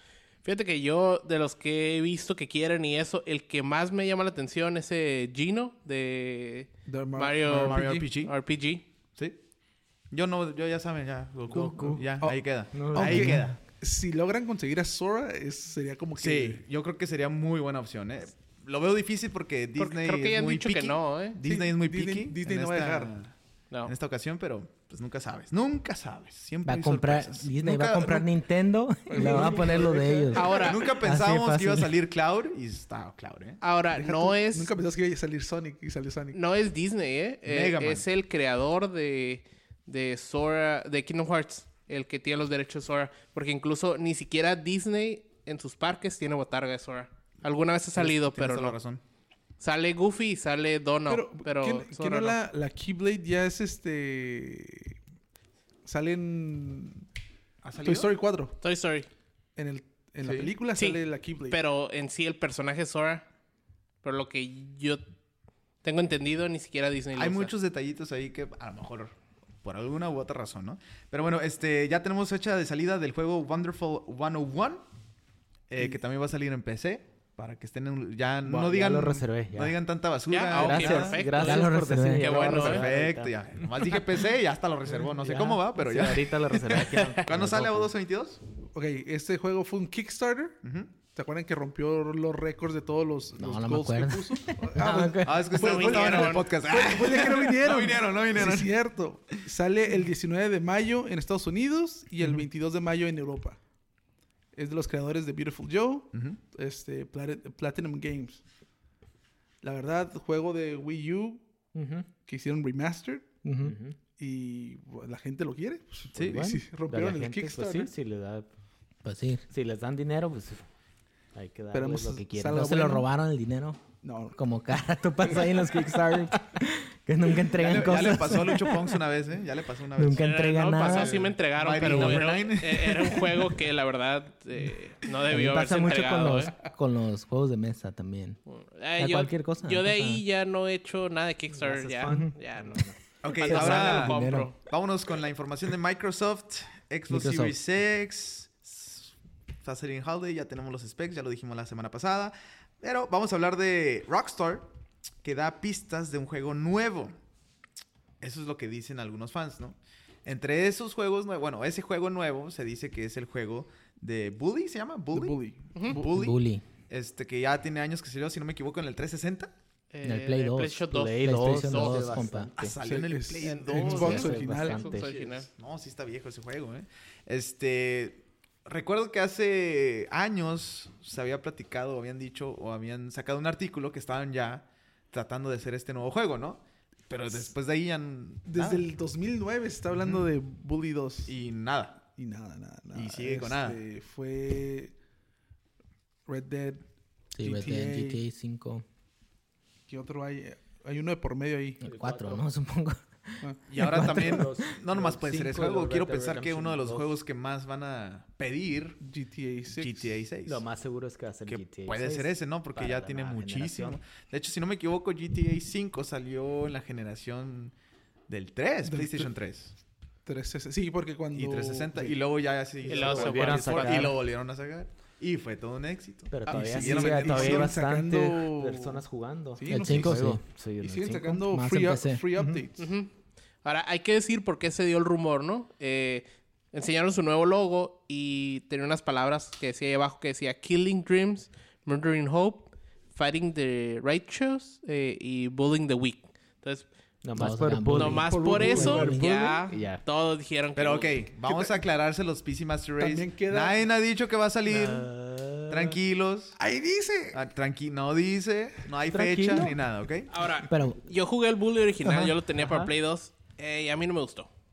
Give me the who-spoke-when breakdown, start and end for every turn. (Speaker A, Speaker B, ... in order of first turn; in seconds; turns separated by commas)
Speaker A: 0.4-8.8, Speaker B: 6.8-8.1, Speaker C: 7.5-8.3, Speaker C: 10.1-13.6, Speaker D: 11.5-12.0, Speaker B: 11.5-16.6, Speaker D: 12.7-13.4, Speaker C: 16.1-23.3, Speaker A: 19.8-21.4, Speaker B: 21.4-23.1, Speaker C: 23.9-28.3, Speaker E: 26.6-31.9, Speaker B: 29.1-30.5, Speaker C: 29.2-29.7, Speaker A: 30.3-30.9, Speaker C: 30.5-33.6, Speaker A: 33.6-34.7, Speaker B: 33.9-36.4, Speaker A: 36.3-48.8, Speaker C: 37.5-38.0, Speaker C: 48.0-49.0, Speaker A: 49.6-52.4, Speaker B: 51.1-55.0, Speaker B: 55.8-57.0, Speaker C: 57.6-58.1, Speaker B: 57.8-58.5, Speaker A: 58.6-59.1, Speaker B: 59.5-61.6, Speaker C: 60.2-60.5, Speaker A: 60.7-63.2, Speaker A: 64.0-65.0, Speaker A: 65.8-67.5, Speaker C: 67.1-74.8, Speaker C: 75.7-81.2, Speaker D: 78.4-79.8, Speaker A: 80.3-82.9, Speaker D: 80.5-83.7, Speaker E: 81.3-82.5, Speaker C: 82.4-88.4, Speaker D: 84.9-87.9, Speaker B: 88.7-103.6, Speaker C: 90.6-90.9, Speaker E: 93.4-95.6, Speaker C: 95.2-98.7, Speaker A: 95.5-96.5, Speaker B: 104.5-108.4, Speaker C: 106.1-106.4, Speaker B: 109.6-111.4, Speaker D: 111.7-112.1, Speaker B: 112.2-113.3, Speaker E: 113.4-113.8, Speaker D: 113.6-114.0, Speaker B: 114.2-117.9, Speaker C: 116.1-116.5, Speaker D: 116.2-118.5, Speaker E: 119.0-119.4, Speaker D: 119.5-120.7, Speaker D: 121.3-122.8, Speaker B: 121.7-123.1, Speaker E: 122.5-123.8, Speaker B: 124.0-124.4, Speaker E: 124.3-129.0, Speaker B: 125.2-125.6, Speaker C: 127.5-133.6, Speaker E: 129.9-132.2, Speaker A: 130.1-136.5, Speaker E: 135.3-138.4, Speaker A: 138.5-144.6, Speaker E: 139.0-140.2, Speaker D: 141.5-143.0, Speaker C: 143.2-154.7, Speaker E: 143.4-144.5, Speaker E: 147.1-147.6, Speaker C: 155.2-157.1, Speaker C: 158.2-166.4, Speaker B: 165.1-166.2, Speaker E: 166.1-166.6, Speaker C: 166.9-169.5, Speaker A: 169.9-172.3, Speaker E: 170.0-172.5, Speaker D: 170.9-172.8, Speaker C: 172.6-174.4, Speaker B: 172.8-175.1, Speaker D: 173.7-175.1, Speaker A: 174.5-175.5, Speaker C: 175.5-188.8, Speaker B: 188.4-191.3, Speaker C: 189.9-190.3, Speaker C: 191.2-192.0, Speaker B: 192.0-194.9, Speaker C: 192.9-193.8, Speaker B: 196.2-196.8, Speaker B: 197.4-198.2, Speaker E: 197.4-198.8, Speaker B: 199.9-201.8, Speaker E: 201.8-204.6, Speaker D: 201.8-202.4, Speaker C: 203.7-209.0, Speaker D: 203.9-207.1, Speaker B: 209.0-210.2, Speaker C: 209.7-210.6, Speaker D: 210.4-214.0, Speaker C: 211.5-217.7, Speaker C: 218.3-219.7, Speaker B: 218.8-219.3, Speaker B: 220.2-222.2, Speaker C: 221.3-227.7, Speaker A: 222.8-224.1, Speaker D: 222.9-224.2, Speaker D: 226.3-231.4, Speaker B: 226.4-229.0, Speaker B: 229.6-232.9, Speaker E: 229.7-230.4, Speaker E: 231.4-232.6, Speaker A: 232.8-233.1, Speaker A: 233.6-246.9, Speaker D: 247.2-249.0, Speaker E: 247.3-249.6, Speaker A: 247.9-251.2, Speaker B: 248.2-249.3, Speaker D: 249.7-250.0, Speaker C: 250.8-255.1, Speaker B: 251.4-251.8, Speaker B: 253.0-253.8, Speaker D: 254.7-256.0, Speaker C: 255.7-256.6, Speaker B: 256.6-257.4, Speaker C: 257.3-260.3, Speaker D: 259.0-259.8, Speaker A: 260.3-264.5, Speaker E: 260.6-261.0, Speaker E: 262.0-262.4, Speaker D: 262.6-262.9